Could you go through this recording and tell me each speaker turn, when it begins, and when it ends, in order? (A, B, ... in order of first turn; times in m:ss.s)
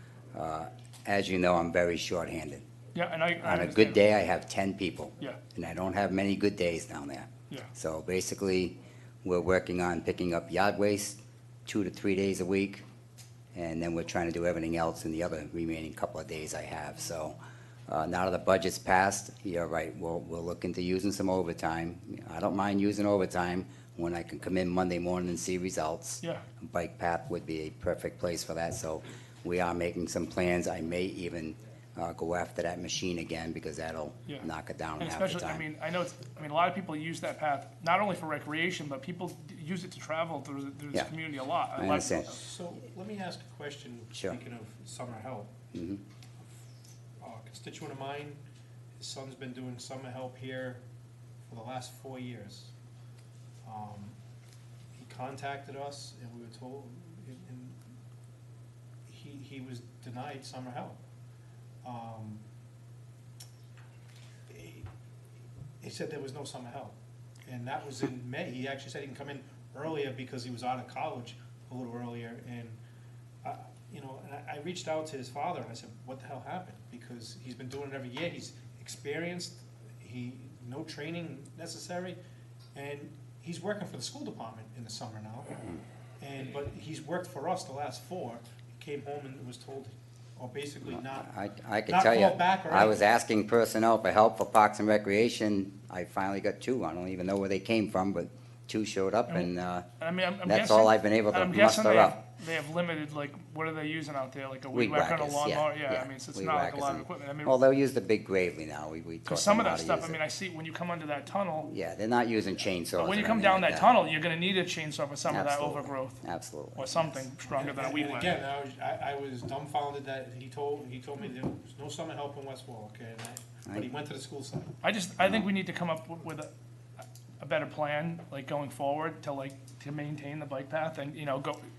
0:00.3-0:02.6 A
0:02.9-0:04.0 B
0:03.4-0:12.8 A
0:13.5-0:17.4 A
0:17.9-0:35.6 A
0:35.0-0:42.3 B
0:41.8-0:42.3 A
0:42.3-0:45.5 C
0:45.7-0:46.0 A
0:47.2-0:48.4 C
0:49.0-0:50.8 C
0:51.4-0:52.7 C
0:53.6-0:54.2 C
0:54.9-0:57.8 C
0:59.0-1:01.0 C
1:01.8-1:02.4 C
1:04.5-1:04.9 C
1:05.8-1:12.8 C
1:13.4-1:22.2 C
1:22.7-1:25.7 C
1:26.2-1:31.3 C
1:30.8-1:39.8 A
1:31.9-1:33.0 C
1:39.3-1:47.5 B
1:40.4-1:42.2 A
1:44.7-1:50.2 A
1:49.3-1:51.7 B
1:51.6-1:53.9 A
1:53.0-1:56.2 B
1:55.3-1:57.2 A
1:56.7-1:58.3 B
1:57.5-2:04.8 C
2:04.8-2:06.5 B
2:05.2-2:05.4 A
2:07.4-2:11.6 B